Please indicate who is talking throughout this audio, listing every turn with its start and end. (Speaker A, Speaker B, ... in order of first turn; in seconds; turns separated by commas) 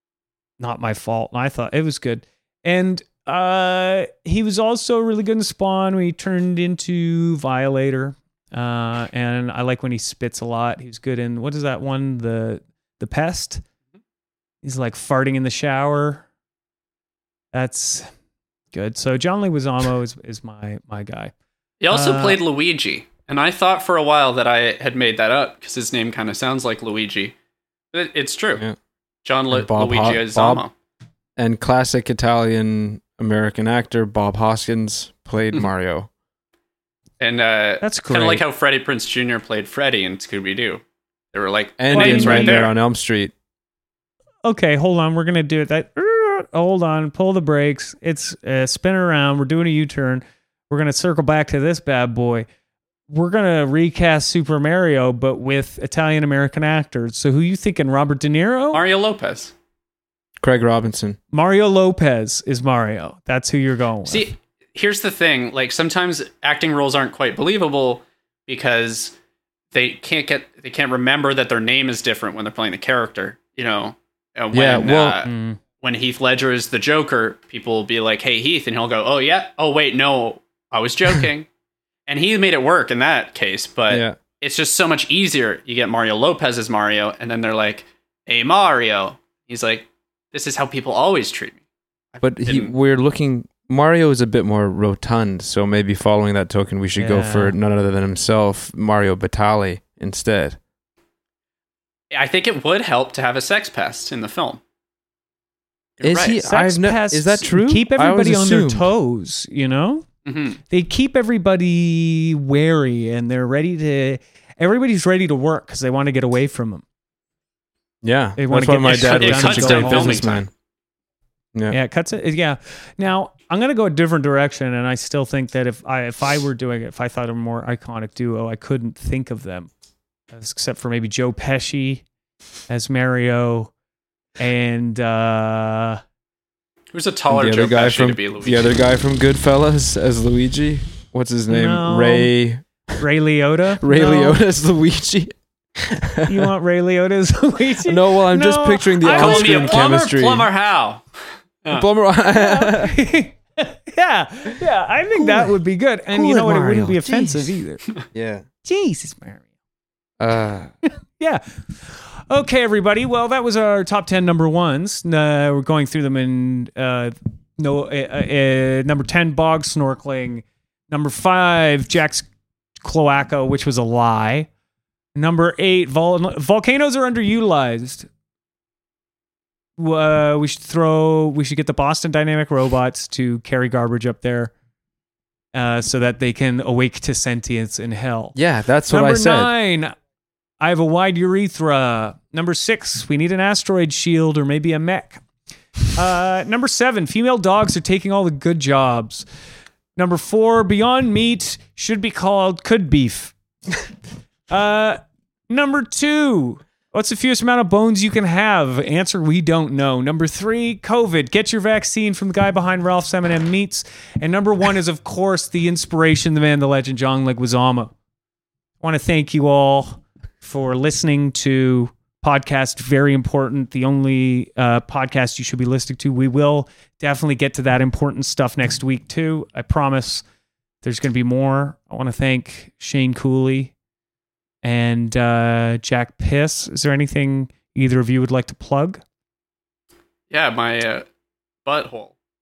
Speaker A: 0.6-13.6, Speaker A: 14.6-16.2, Speaker A: 17.5-18.1, Speaker A: 18.7-21.3, Speaker B: 21.8-27.3, Speaker A: 21.9-22.4, Speaker B: 27.9-28.6, Speaker B: 29.2-30.7, Speaker C: 29.5-30.6, Speaker C: 31.4-36.1, Speaker B: 37.2-40.8, Speaker A: 37.8-38.4, Speaker B: 41.3-42.7, Speaker C: 41.8-43.3, Speaker A: 41.9-42.6, Speaker A: 44.4-52.5, Speaker A: 53.1-58.8, Speaker B: 58.7-59.5, Speaker C: 60.4-61.2, Speaker A: 61.3-64.3, Speaker B: 64.0-69.1, Speaker B: 69.7-81.5, Speaker C: 74.5-75.2, Speaker A: 75.2-75.6, Speaker B: 82.1-91.6, Speaker C: 83.9-84.2, Speaker B: 92.1-92.7, Speaker C: 92.2-100.6, Speaker A: 97.0-97.5, Speaker B: 102.1-104.6, Speaker B: 106.0-106.4, Speaker C: 106.0-108.9, Speaker A: 106.4-110.0, Speaker B: 110.2-110.6, Speaker A: 110.7-116.8, Speaker C: 118.0-120.5, Speaker A: 118.4-120.4, Speaker B: 118.9-120.5, Speaker A: 121.7-129.7, Speaker A: 130.3-132.0, Speaker A: 132.7-133.7, Speaker A: 134.4-136.0, Speaker B: 136.9-138.8, Speaker C: 137.3-142.6, Speaker A: 141.5-142.3, Speaker A: 143.0-144.4, Speaker C: 143.8-146.5, Speaker A: 146.3-149.8, Speaker C: 147.8-150.5, Speaker B: 149.1-151.0, Speaker C: 151.7-153.0, Speaker A: 152.3-157.9, Speaker C: 156.2-157.2, Speaker C: 158.1-158.4, Speaker A: 158.6-159.4, Speaker C: 160.2-160.7, Speaker A: 161.2-172.3, Speaker A: 172.8-174.5, Speaker A: 175.1-178.1, Speaker A: 179.8-184.5, Speaker A: 185.5-188.3, Speaker C: 188.3-189.5, Speaker A: 188.9-189.9, Speaker A: 190.6-195.2, Speaker A: 195.9-199.2, Speaker A: 200.0-203.3, Speaker A: 204.5-217.9, Speaker A: 218.8-230.2, Speaker A: 230.8-233.7, Speaker A: 234.6-239.0, Speaker B: 240.3-241.1, Speaker B: 241.6-242.1